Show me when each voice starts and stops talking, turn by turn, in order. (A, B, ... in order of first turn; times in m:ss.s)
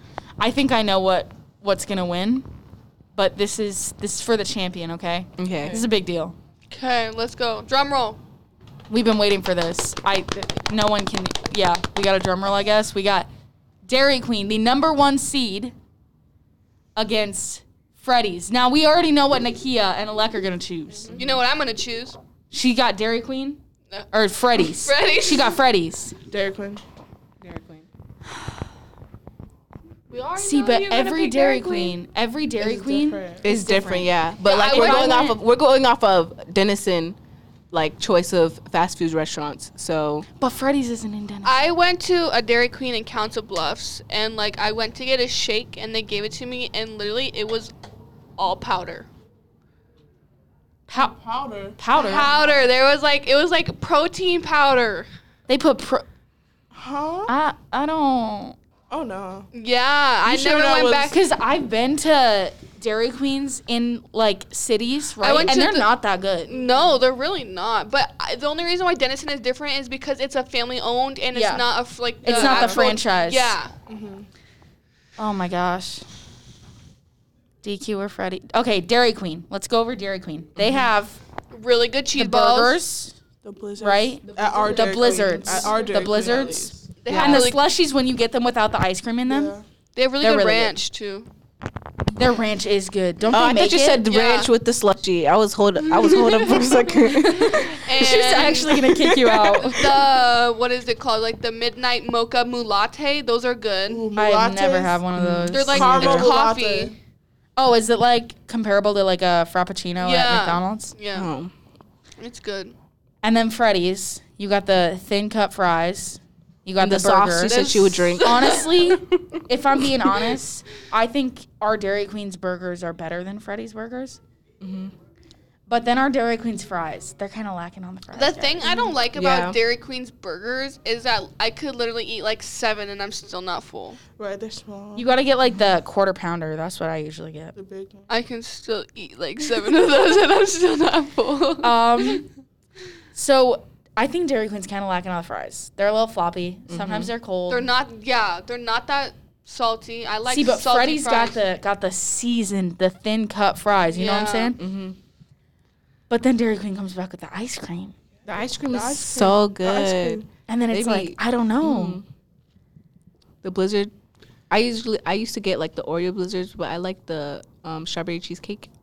0:00.4-0:02.5 A
0:03.1-0:06.3 A
0:05.4-0:05.8 B
0:06.7-0:08.2 C
0:08.9-0:13.3 A
0:13.8-0:15.7 A
0:17.0-0:21.2 A
0:21.1-0:22.2 C
0:22.5-0:23.6 A
0:24.1-0:26.1 A
0:24.6-0:25.6 C
0:26.3-0:26.8 D
0:27.4-0:27.8 B
0:30.1-0:32.0 C
0:30.4-0:34.1 A
0:32.6-0:33.4 D
0:33.4-0:37.2 B
0:34.4-0:35.2 C
0:34.6-0:35.4 A
0:37.7-0:40.2 B
0:40.4-0:41.6 A
0:41.4-0:47.7 C
0:48.4-0:49.1 C
0:50.9-0:51.1 A
0:50.9-0:52.7 D
0:51.8-0:52.3 A
0:52.0-0:55.1 C
0:55.5-0:56.0 A
0:56.7-0:57.3 D
0:57.3-0:58.6 A
0:58.9-0:59.5 D
0:59.5-1:01.1 C
1:00.2-1:01.1 D
1:01.1-1:06.5 A
1:05.2-1:05.9 C
1:06.5-1:13.7 C
1:06.5-1:06.9 D
1:11.3-1:11.6 A
1:12.2-1:13.6 A
1:12.4-1:12.8 B
1:13.9-1:14.3 D
1:15.2-1:16.0 A
1:17.6-1:21.2 A
1:20.6-1:20.9 B
1:21.5-1:22.8 C
1:22.1-1:23.1 A
1:23.4-1:26.9 D
1:23.8-1:29.5 A
1:24.6-1:24.9 B
1:27.0-1:27.6 C
1:27.1-1:27.5 B
1:29.3-1:29.6 D
1:30.0-1:31.3 C
1:30.2-1:30.8 A
1:32.2-1:34.1 A
1:33.3-1:37.8 B
1:34.1-1:34.5 C
1:35.9-1:36.8 C
1:37.3-1:38.8 C
1:37.4-1:39.9 A
1:38.4-1:39.8 B
1:39.7-1:44.1 C
1:43.9-1:45.0 D
1:44.2-1:46.3 A
1:45.2-1:46.2 B
1:45.5-1:47.0 C
1:45.7-1:46.9 D
1:47.6-1:50.9 A
1:50.0-1:51.3 C
1:51.1-1:51.5 B
1:52.2-1:52.7 C
1:53.2-2:04.2 A
1:56.8-1:59.4 B
1:57.5-1:58.6 C
2:04.6-2:04.9 B
2:05.7-2:08.9 A
2:08.1-2:14.0 C
2:09.1-2:09.6 B
2:14.2-2:15.1 D
2:15.0-2:17.6 A
2:17.6-2:18.0 D
2:18.1-2:21.8 C
2:21.6-2:22.3 A
2:23.1-2:27.7 A
2:26.7-2:27.1 B
2:27.5-2:31.4 C
2:30.3-2:34.6 A
2:33.9-2:34.5 C
2:34.6-2:35.0 B
2:36.1-2:37.9 A
2:38.2-2:42.0 B
2:38.7-2:40.2 D
2:40.5-2:42.0 A
2:43.4-2:43.9 B
2:44.5-2:48.7 B